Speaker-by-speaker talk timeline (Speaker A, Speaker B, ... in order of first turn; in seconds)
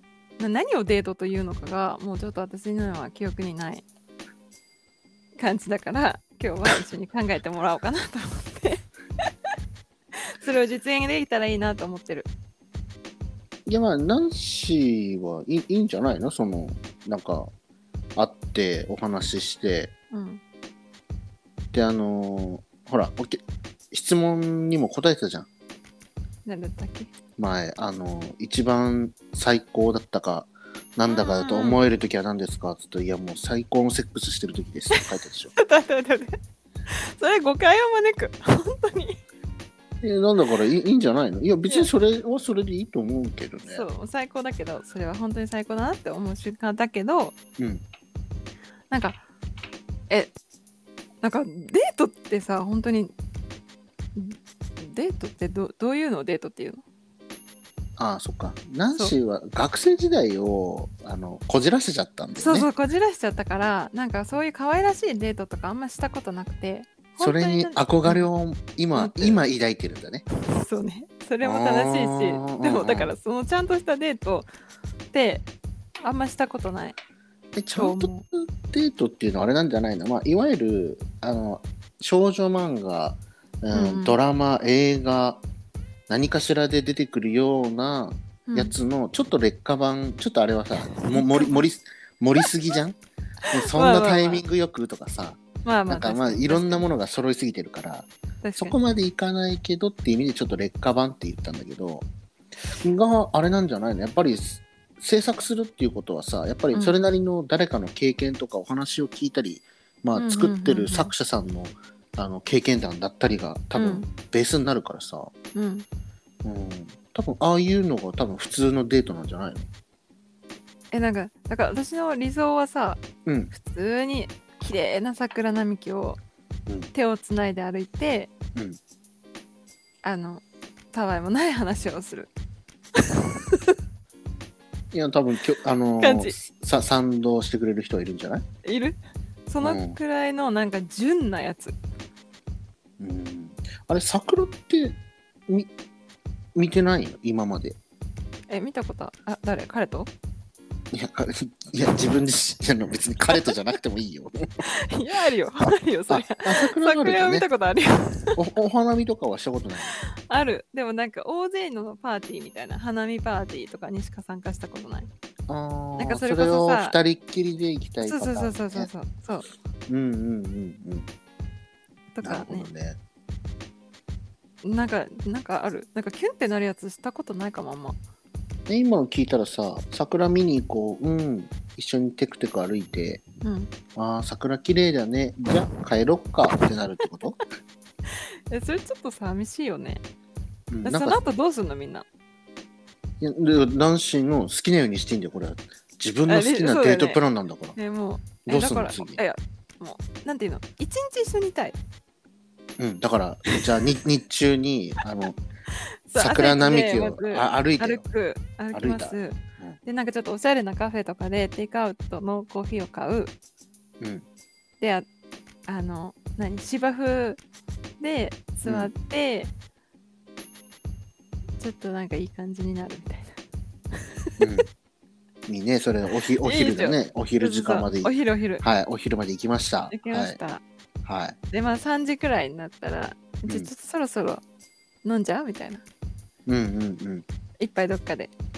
Speaker A: 0.4-3.8, 5.4-8.8, 10.3-12.3, 20.1-20.4, 26.4-27.1, 31.1-31.8, 35.5-36.4, 36.9-39.2, 43.6-47.3, 48.9-49.2, 51.2-53.1, 54.1-56.8, 62.4-68.3, 68.9-69.4, 70.3-74.5, 75.1-75.5, 76.0-77.0, 77.8-78.2, 83.7-84.2, 88.5-88.7, 90.9-91.6, 93.4-94.4, 95.6-96.9, 98.4-98.8, 110.1-111.1, 113.7-114.1, 115.5-115.8, 120.9-126.2, 126.9-128.3, 130.0-132.3, 133.0-133.7, 136.0-136.3, 138.6-141.7, 148.5-150.1, 154.6-158.4, 159.9-165.1, 166.0-166.9, 168.0-169.5, 172.1-172.7, 174.6-178.0, 183.4-183.7, 188.5-190.0, 190.8-192.1, 196.3-197.2, 197.8-201.8, 206.1-213.3, 214.8-215.1, 215.7-217.4, 218.0-219.5, 221.6-223.4, 226.4-228.6, 229.9-230.6, 231.5-234.4, 235.0-235.8, 237.6-238.3
Speaker B: 13.7-17.5, 18.1-19.9, 21.7-25.5, 27.4-35.5, 40.0-43.8, 47.6-47.8, 58.0-62.7, 67.2-70.2, 71.4-73.1, 77.5-85.4, 86.1-93.0, 93.5-102.1, 102.7-115.3, 116.4-119.7, 123.2-123.5, 134.9-138.4, 139.6-140.0, 143.0-145.0, 146.5-147.8, 150.9-154.4, 156.1-157.4, 158.3-159.9, 165.5-168.9, 169.9-171.1, 172.2-173.0, 178.7-183.2, 183.9-187.4, 190.7-191.2, 193.2-197.8, 198.4-199.2, 202.8-205.4, 206.2-208.0, 208.7-209.8, 218.6-218.9, 224.4-224.7, 225.5-230.4, 231.0-231.3, 236.4-237.2